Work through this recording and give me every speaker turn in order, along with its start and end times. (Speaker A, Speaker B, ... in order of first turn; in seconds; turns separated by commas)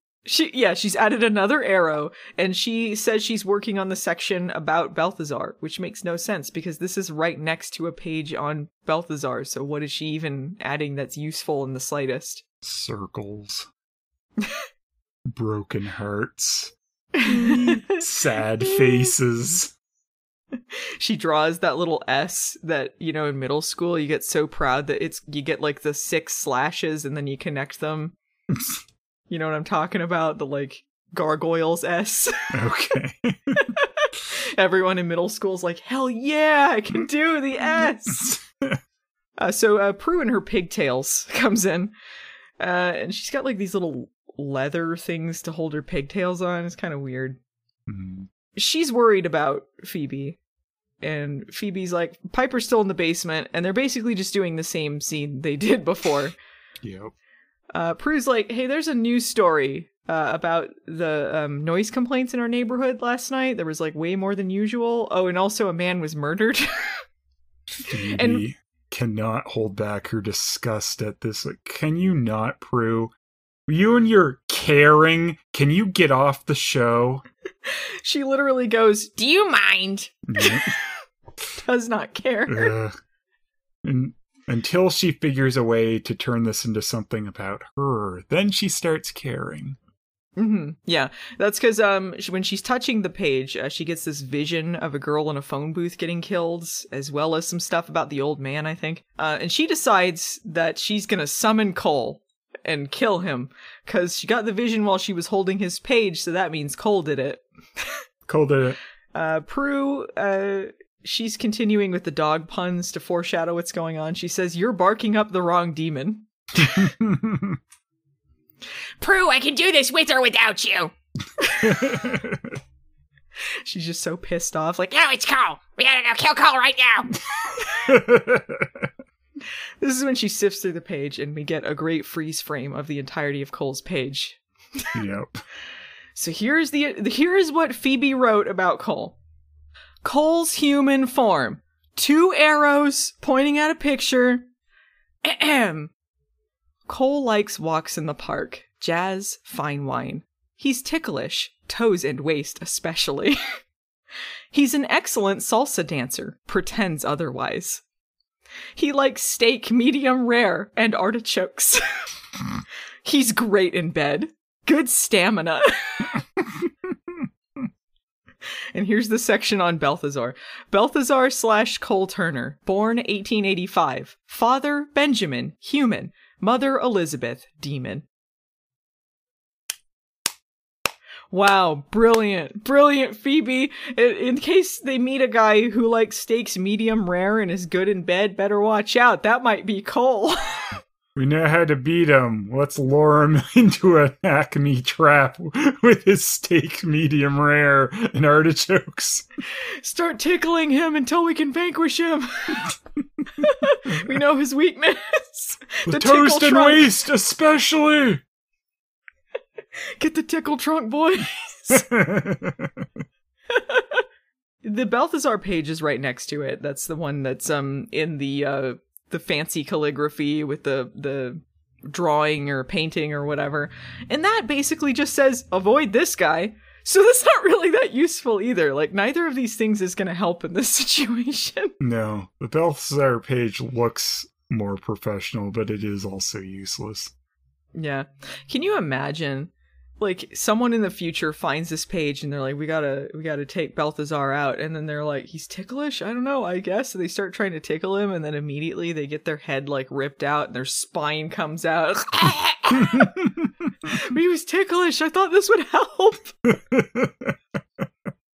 Speaker A: 0.3-12.4, Speaker B: 12.6-13.7, Speaker B: 15.3-19.7, Speaker A: 17.2-18.0, Speaker A: 20.5-28.1, Speaker B: 28.5-28.8, Speaker A: 29.3-32.5, Speaker B: 32.5-33.7, Speaker A: 33.6-38.4, Speaker B: 37.8-38.8, Speaker A: 39.4-41.9, Speaker A: 42.6-47.4, Speaker B: 47.9-48.3, Speaker A: 48.6-50.4, Speaker A: 51.0-56.4, Speaker B: 56.8-57.1, Speaker A: 57.7-67.0, Speaker B: 67.8-73.1, Speaker A: 68.1-68.5, Speaker B: 73.7-77.2, Speaker A: 78.0-79.2, Speaker C: 79.2-80.1, Speaker B: 80.3-80.7, Speaker A: 80.4-80.8, Speaker A: 81.6-82.7, Speaker B: 82.5-83.0, Speaker B: 83.8-89.8, Speaker A: 90.4-107.9, Speaker B: 108.3-108.8, Speaker A: 109.1-116.9, Speaker B: 116.6-117.6, Speaker C: 119.0-120.9, Speaker B: 121.6-122.6, Speaker A: 123.7-124.9, Speaker C: 124.9-127.1, Speaker B: 127.8-128.9, Speaker A: 129.8-134.9, Speaker B: 134.9-135.4, Speaker A: 136.2-139.2, Speaker A: 140.0-144.5, Speaker A: 145.2-145.9, Speaker A: 146.9-153.4, Speaker A: 154.5-157.8, Speaker A: 158.8-162.0, Speaker A: 163.1-166.2, Speaker A: 168.7-178.1, Speaker A: 181.3-190.8, Speaker B: 191.2-199.3, Speaker A: 199.8-202.7, Speaker A: 203.4-206.9, Speaker B: 205.9-208.2, Speaker A: 209.8-211.9, Speaker B: 211.7-212.9, Speaker A: 213.5-214.0, Speaker A: 214.6-231.7, Speaker B: 231.8-237.1, Speaker A: 237.7-253.3, Speaker B: 253.0-253.3, Speaker A: 253.8-256.4, Speaker B: 256.5-257.4